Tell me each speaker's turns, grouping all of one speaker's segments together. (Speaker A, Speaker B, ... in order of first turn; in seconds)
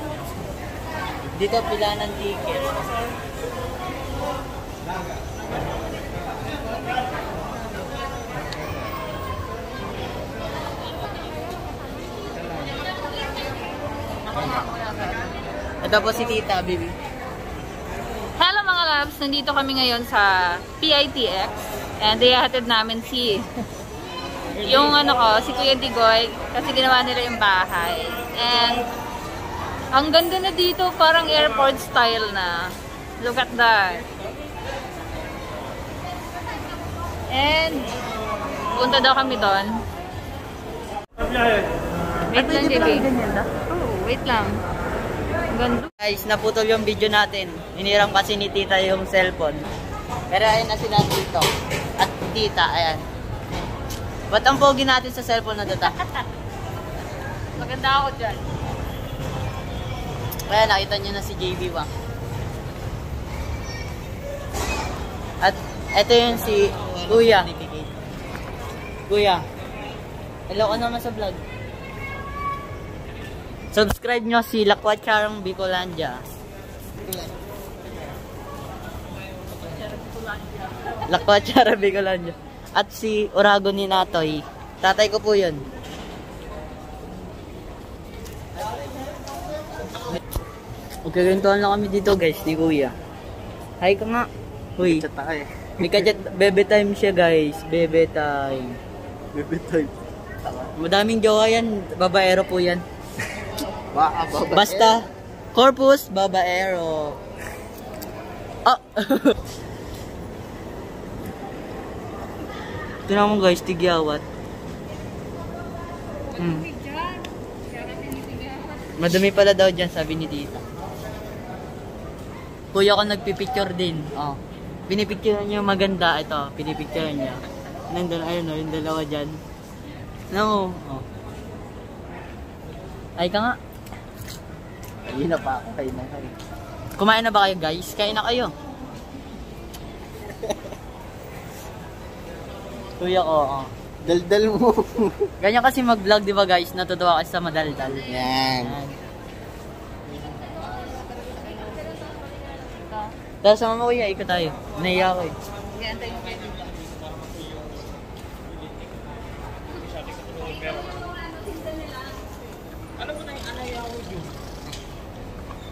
Speaker A: 1.3-2.8, 15.8-17.0, 42.4-43.5, 46.0-49.6, 50.3-53.0, 54.3-56.0, 60.5-61.9, 65.4-67.5, 69.1-69.4, 70.5-71.4, 73.7-76.2, 81.1-85.6, 91.0-92.9, 93.8-95.0, 95.8-98.8, 100.8-102.8, 104.5-107.2, 108.7-109.4, 113.1-114.2, 116.4-116.7, 119.0-120.6, 122.7-129.4, 130.3-131.1, 133.2-133.6, 137.0-138.5, 143.0-143.7, 145.4-149.0, 153.4-155.4
Speaker B: 18.4-23.5, 24.6-28.9, 29.9-34.1, 37.3-37.9, 38.7-39.8, 42.3-44.6, 45.5-45.9, 55.8-56.3, 57.6-58.5, 116.3-119.0, 151.6-151.9, 152.7-153.1, 155.7-156.8, 160.1-162.0
Speaker C: 66.3-67.9, 77.0-77.3, 94.8-96.0, 99.3-100.7, 103.9-105.0, 135.1-136.3, 144.0-145.3, 148.1-148.8